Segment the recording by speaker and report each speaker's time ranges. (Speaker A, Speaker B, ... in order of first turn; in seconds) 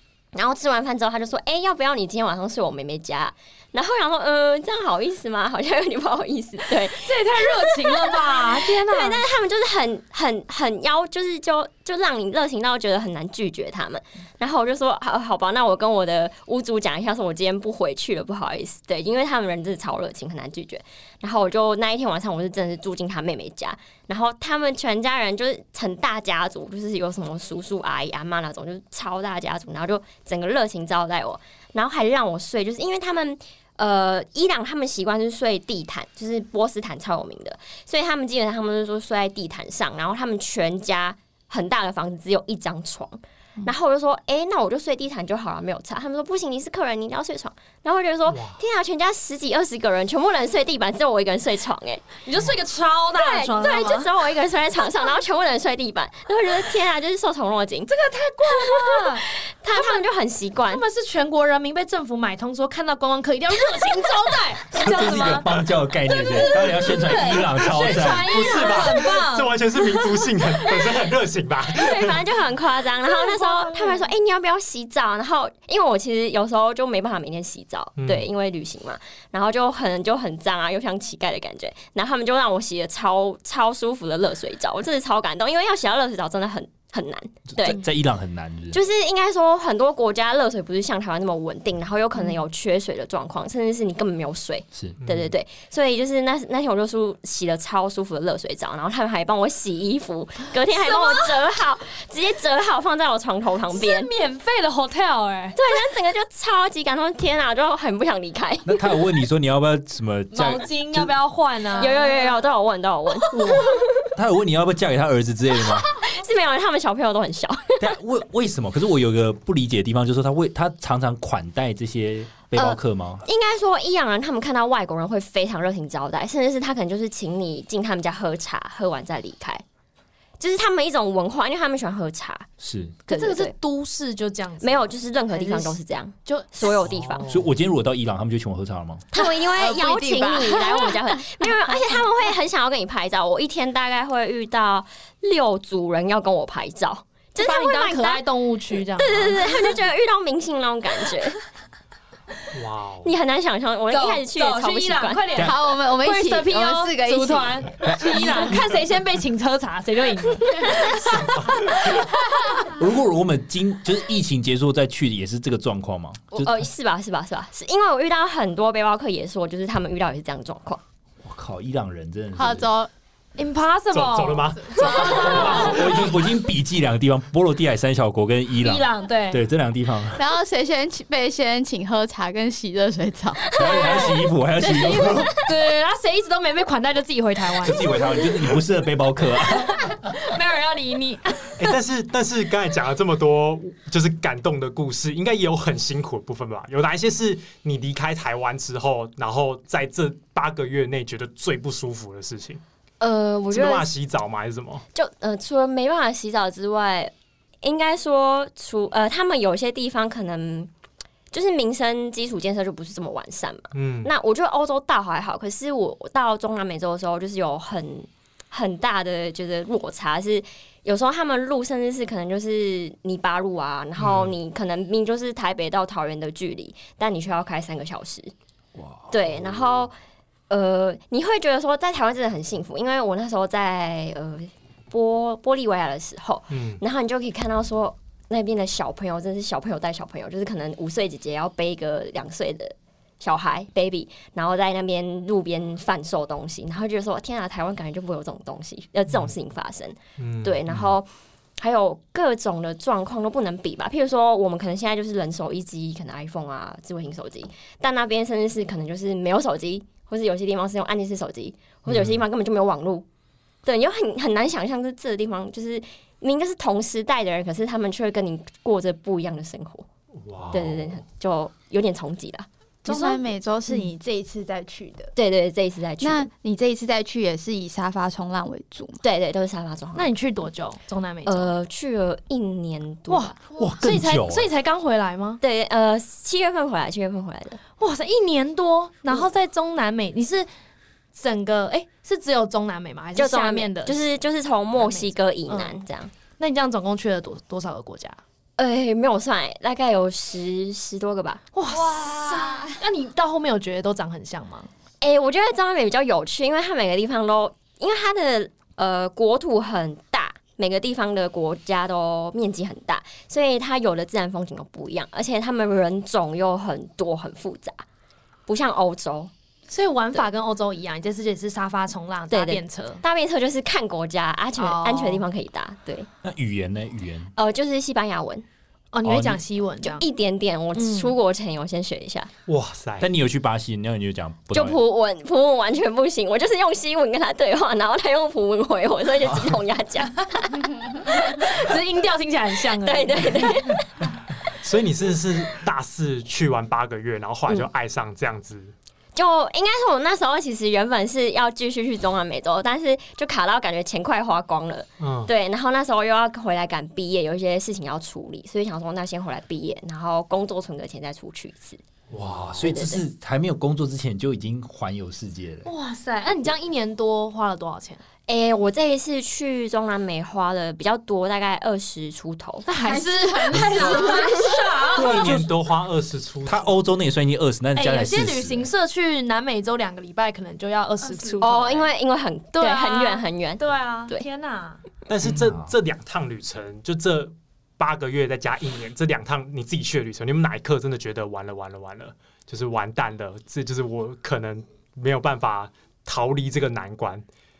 Speaker A: 0.3-52.2, 53.1-60.8, 71.7-87.8, 88.7-104.1, 105.5-108.8, 111.8-113.3, 115.9-117.8, 122.5-129.6, 130.4-132.5, 133.1-133.5, 134.6-137.3, 139.1-148.2, 148.9-151.4, 153.0-155.2, 166.3-170.8, 203.0-203.9, 204.9-210.7, 211.3-228.3, 229.1-229.9, 230.5-251.1, 251.6-263.1, 263.6-269.9, 270.5-272.5, 275.1-276.3, 279.0-280.1, 281.2-283.3, 285.4-287.6, 293.1-296.1, 298.6-301.4, 302.3-302.7, 305.0-317.8, 318.5-319.3, 322.3-326.1, 327.4-328.4, 329.8-332.3, 334.5-340.6, 342.8-343.9, 349.1-361.8, 362.6-363.0, 368.3-372.7, 373.9-374.4, 381.4-384.2
Speaker B: 6.9-9.2, 52.2-54.0, 57.9-60.0, 60.7-65.5, 66.1-70.0, 73.1-74.1, 100.8-101.3, 103.7-105.6, 110.3-112.3, 113.3-113.6, 133.1-136.7, 147.3-149.5, 153.9-162.0, 173.3-176.0, 178.6-179.4, 183.5-187.9, 189.5-191.7, 272.9-273.9, 279.9-281.5, 283.1-285.4, 287.8-290.5, 291.1-294.0, 294.8-295.8, 296.4-298.2, 301.5-304.7, 319.7-323.0, 324.6-325.2, 328.9-330.1, 330.7-331.1, 341.0-343.7, 365.6-368.0, 372.6-375.3, 377.8-381.9, 382.5-384.8
Speaker C: 48.3-48.6, 67.6-72.2, 78.0-78.3, 95.0-95.3, 136.8-137.4, 152.5-153.1, 160.7-161.9, 173.9-176.1, 191.6-202.6, 203.5-204.8, 213.7-214.1, 224.0-224.3, 236.5-236.8, 250.2-250.9, 261.9-262.2, 270.2-271.0, 332.5-333.1, 344.5-348.7, 355.0-355.3, 362.1-362.6, 374.9-376.8, 385.1-397.2
Speaker D: 64.7-68.4, 87.5-88.8, 108.6-111.2, 113.3-115.8, 117.8-123.2, 132.6-132.9, 137.3-139.0, 157.8-158.6, 162.7-166.5, 171.2-172.7, 175.2-180.2, 183.5-185.3, 187.6-189.9, 228.8-229.1, 283.6-284.5, 326.2-327.3, 329.0-329.4, 333.0-334.8, 362.1-365.7, 374.9-375.5, 376.4-378.7, 385.2-385.7
Speaker E: 139.2-141.0, 155.3-157.6, 172.3-172.9, 174.8-175.3, 180.1-183.5, 272.8-275.1, 276.0-279.0, 372.8-374.6